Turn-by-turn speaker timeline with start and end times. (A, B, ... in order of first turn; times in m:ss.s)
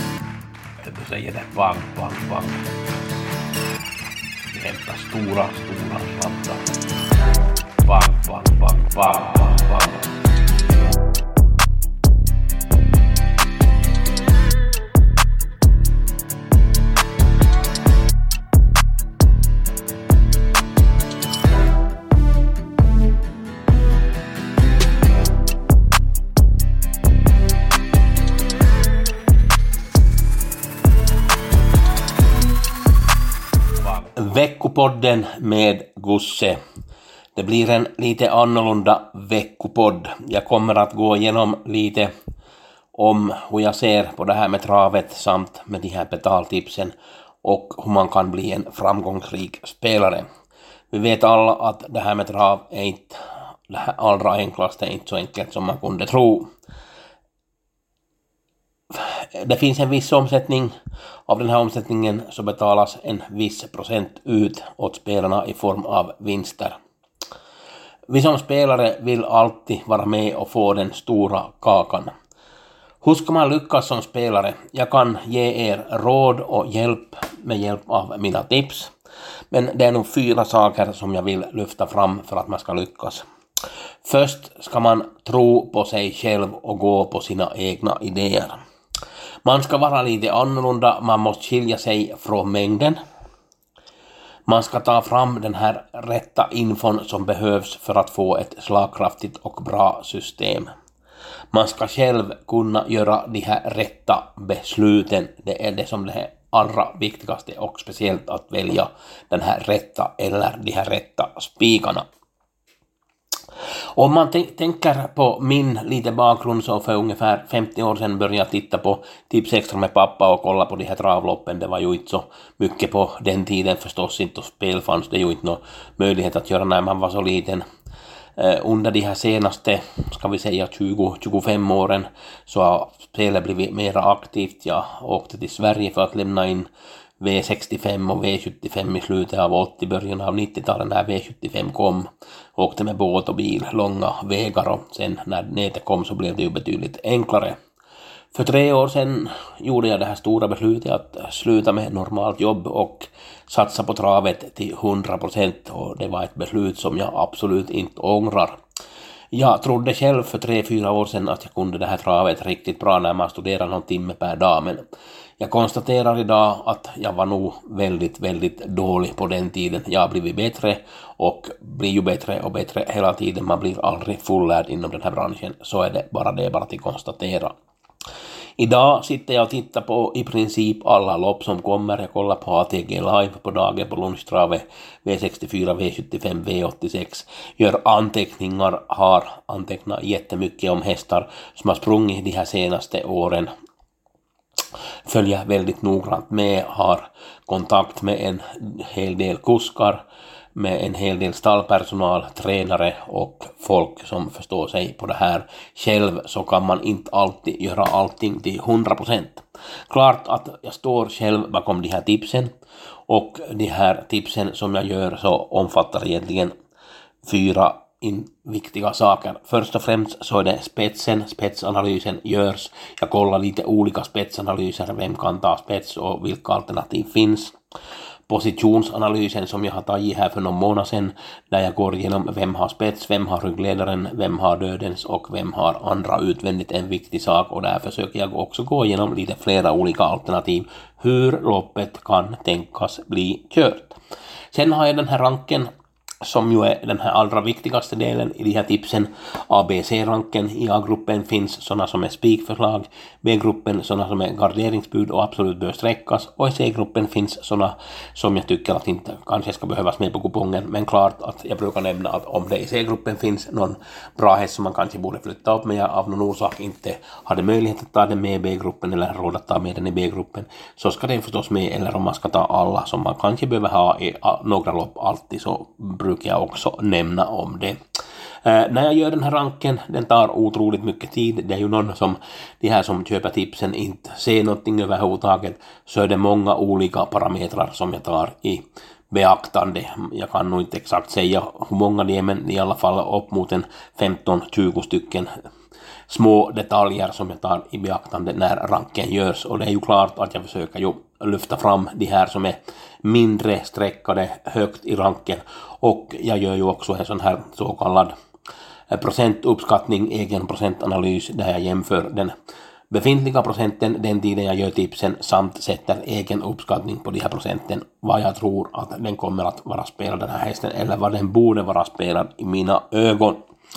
0:00.8-0:02.6 A
0:04.5-0:06.7 A
0:07.8-0:10.1 A
0:33.9-0:36.6 A
0:37.3-0:42.1 A
0:42.9-0:50.3 A
0:50.9-0:56.5 A
0:58.9-1:00.7 A
1:01.3-1:06.8 A
1:08.1-1:12.1 A
1:13.0-1:18.9 A
1:19.5-1:23.2 A
1:24.0-1:28.6 A
1:29.4-1:33.0 A
1:34.5-1:40.7 A
1:41.5-1:52.1 A
1:53.9-2:07.6 A
2:08.4-2:16.7 A
2:17.2-2:27.6 A
2:28.3-2:38.6 A
2:39.3-2:44.8 A
2:45.4-2:57.5 A
2:58.6-3:13.5 A
3:15.0-3:20.0 A
3:20.5-3:32.5 A
3:33.1-3:36.5 A
3:37.2-3:47.5 A
3:48.3-4:04.0 A
4:04.5-4:05.7 A
4:06.2-4:37.8 A
4:38.4-4:55.3 A
4:56.1-5:08.1 A
5:08.9-5:12.3 A
5:12.9-5:23.4 A